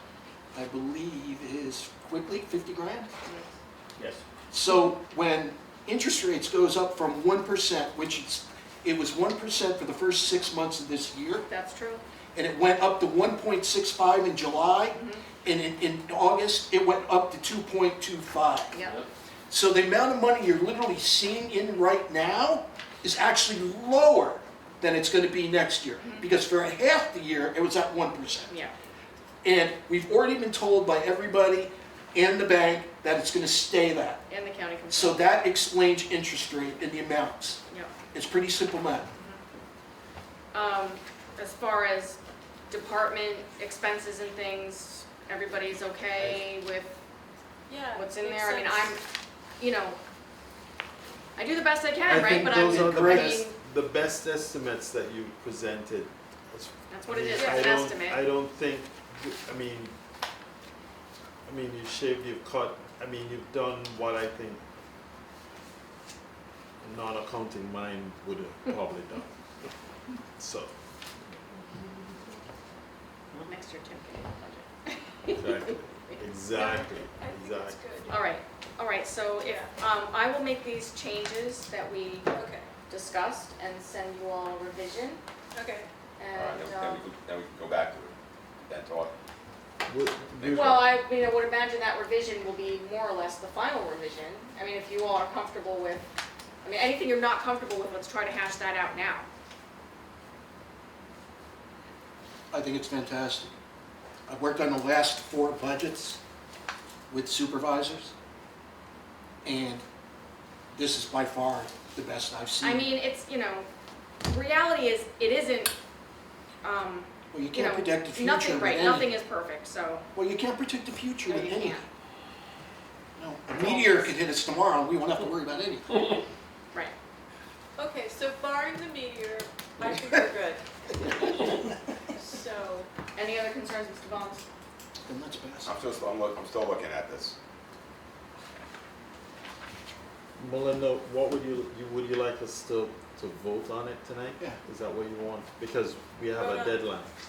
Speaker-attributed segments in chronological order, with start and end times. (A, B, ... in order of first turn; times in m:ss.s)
0:00.5-0:03.1 A
0:04.5-0:11.5 A
0:11.5-0:12.0 B
0:12.4-0:18.8 A
0:14.9-0:15.2 B
0:18.7-0:19.0 B
0:19.5-0:28.5 A
0:26.0-0:26.3 B
0:28.5-0:28.7 B
0:29.4-0:34.2 A
0:34.3-0:35.2 B
0:34.9-0:37.6 A
0:37.7-0:38.0 B
0:38.1-0:39.1 A
0:39.2-0:39.4 B
0:40.5-0:42.2 B
0:42.7-0:47.0 B
0:46.2-0:46.4 C
0:47.7-0:49.0 D
0:47.9-0:49.0 B
0:49.6-0:50.0 B
0:51.4-0:53.6 B
0:52.1-0:59.9 C
0:52.1-0:53.5 A
0:56.9-0:58.2 B
0:57.4-0:57.7 D
1:01.4-1:04.6 C
1:06.8-1:09.7 C
1:10.3-1:10.7 C
1:13.4-1:15.8 B
1:15.3-1:17.8 C
1:16.5-1:18.2 D
1:18.1-1:22.3 B
1:19.4-1:19.7 D
1:22.3-1:22.7 D
1:22.9-1:25.2 B
1:25.5-1:25.9 D
1:26.2-1:27.0 B
1:26.3-1:29.1 E
1:29.8-1:30.9 C
1:30.4-1:31.0 E
1:30.5-1:36.1 B
1:36.6-1:39.3 B
1:42.5-1:43.5 A
1:44.3-1:46.2 A
1:47.1-1:48.1 A
1:49.4-1:49.8 A
1:50.7-1:52.9 A
1:52.6-1:53.7 B
1:54.2-1:55.7 B
1:56.6-2:00.1 B
1:57.3-1:59.2 A
2:00.1-2:01.8 A
2:01.2-2:01.8 B
2:03.2-2:06.0 A
2:03.6-2:04.1 B
2:07.8-2:12.9 D
2:13.1-2:14.4 B
2:15.1-2:15.7 A
2:15.6-2:17.4 E
2:20.4-2:27.1 C
2:26.4-2:26.8 D